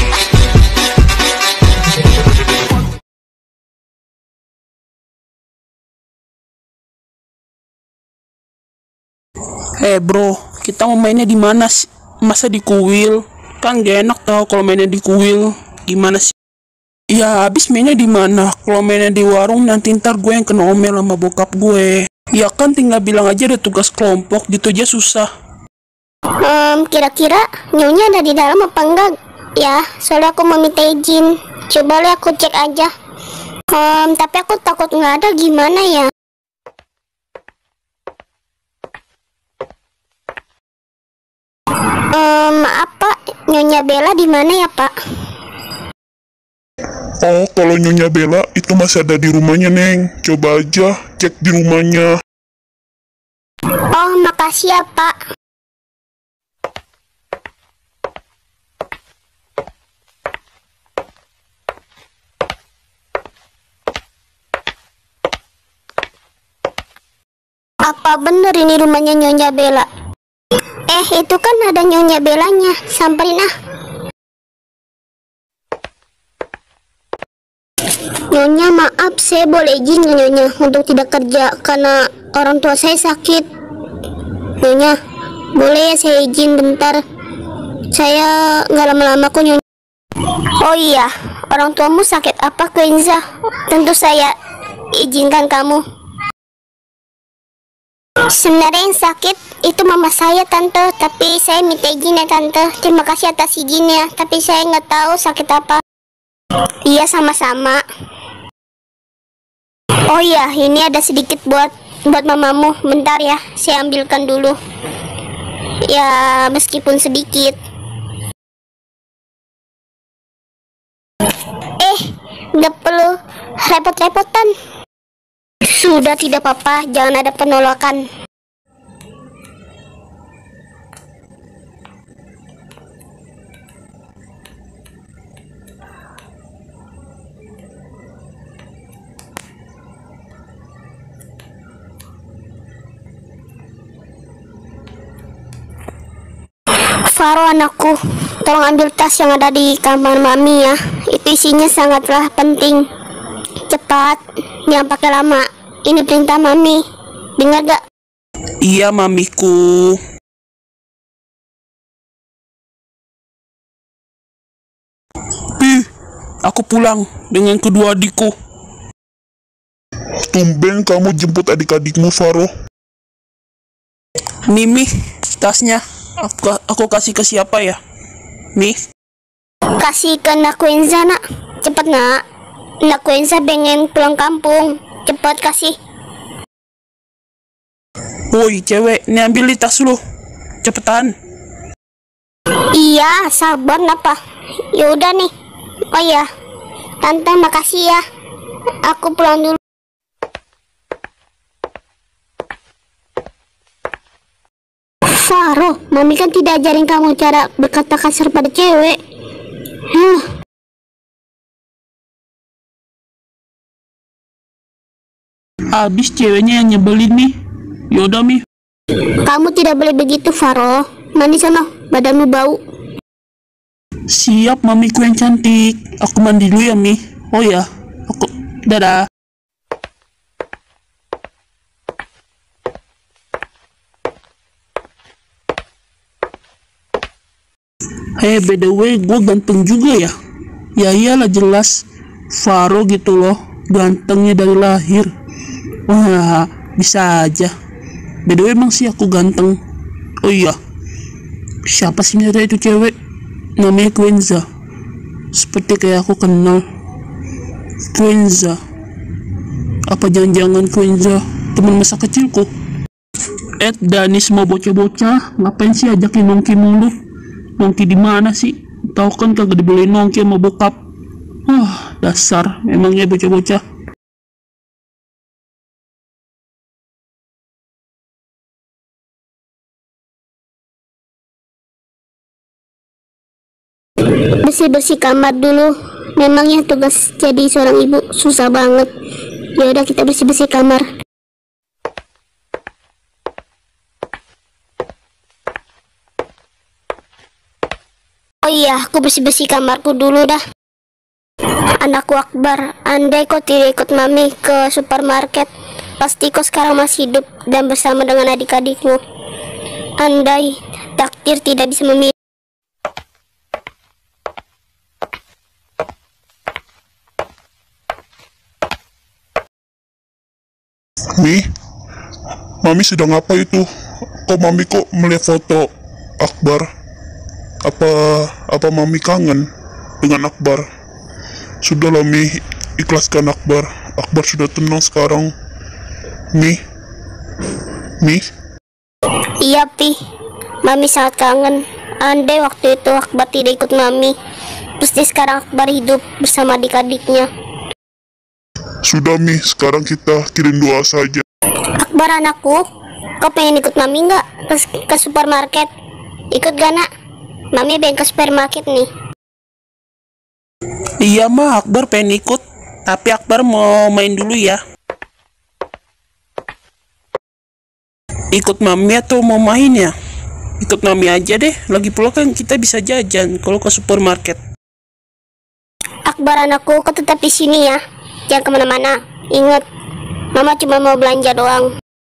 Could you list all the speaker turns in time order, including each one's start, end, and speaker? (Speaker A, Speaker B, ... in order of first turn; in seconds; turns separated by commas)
Speaker A: 9.8-16.4, Speaker A: 17.1-25.3, Speaker B: 26.4-32.9, Speaker B: 33.7-36.1, Speaker B: 42.1-44.9, Speaker C: 47.2-52.1, Speaker B: 53.9-55.1, Speaker B: 67.8-69.9, Speaker B: 70.9-73.5, Speaker B: 78.3-83.5, Speaker B: 84.6-85.0, Speaker B: 85.6-87.0, Speaker B: 87.9-89.6, Speaker B: 90.6-94.3, Speaker B: 94.9-95.8, Speaker B: 98.3-105.8, Speaker B: 106.9-107.8, Speaker B: 110.1-114.6, Speaker B: 115.9-117.6, Speaker B: 122.6-124.5, Speaker B: 125.6-128.0, Speaker B: 147.1-152.9, Speaker B: 153.7-156.8, Speaker B: 157.4-157.8, Speaker A: 158.6-160.0, Speaker A: 165.6-165.9, Speaker A: 166.4-168.3, Speaker C: 170.3-172.5, Speaker A: 174.5-177.8, Speaker B: 179.8-182.2, Speaker B: 182.8-185.8, Speaker A: 188.3-190.0, Speaker A: 190.6-191.1, Speaker B: 192.7-194.2, Speaker B: 194.7-195.3, Speaker B: 195.9-196.3, Speaker B: 197.0-198.0, Speaker B: 198.9-199.6, Speaker B: 205.1-209.0, Speaker B: 209.9-210.3, Speaker A: 215.7-217.3, Speaker A: 217.9-218.4, Speaker B: 219.2-222.6, Speaker A: 224.1-229.1, Speaker A: 238.2-240.1, Speaker A: 240.8-245.1, Speaker A: 245.9-247.5, Speaker A: 248.3-249.6, Speaker A: 250.2-250.6, Speaker A: 251.7-252.9, Speaker A: 253.6-254.5, Speaker A: 255.3-256.6, Speaker A: 257.9-258.6, Speaker A: 259.9-262.5, Speaker A: 263.6-266.9, Speaker A: 267.6-270.8, Speaker A: 271.5-273.6, Speaker B: 284.4-288.9, Speaker B: 289.6-290.9, Speaker B: 298.4-300.4, Speaker B: 301.8-309.0, Speaker B: 310.0-312.1, Speaker C: 321.2-321.4, Speaker C: 322.6-323.7, Speaker C: 324.3-325.7, Speaker C: 326.2-326.7, Speaker C: 327.6-329.5, Speaker C: 330.0-330.6, Speaker C: 331.6-335.3, Speaker B: 339.4-340.0, Speaker B: 340.6-344.1, Speaker B: 344.8-347.3, Speaker C: 348.9-351.2, Speaker B: 351.8-352.6, Speaker B: 353.2-355.7, Speaker B: 356.3-356.9, Speaker B: 357.5-358.9, Speaker A: 361.0-364.6, Speaker A: 368.3-369.9, Speaker A: 370.6-374.4, Speaker B: 376.1-379.6, Speaker B: 380.3-381.7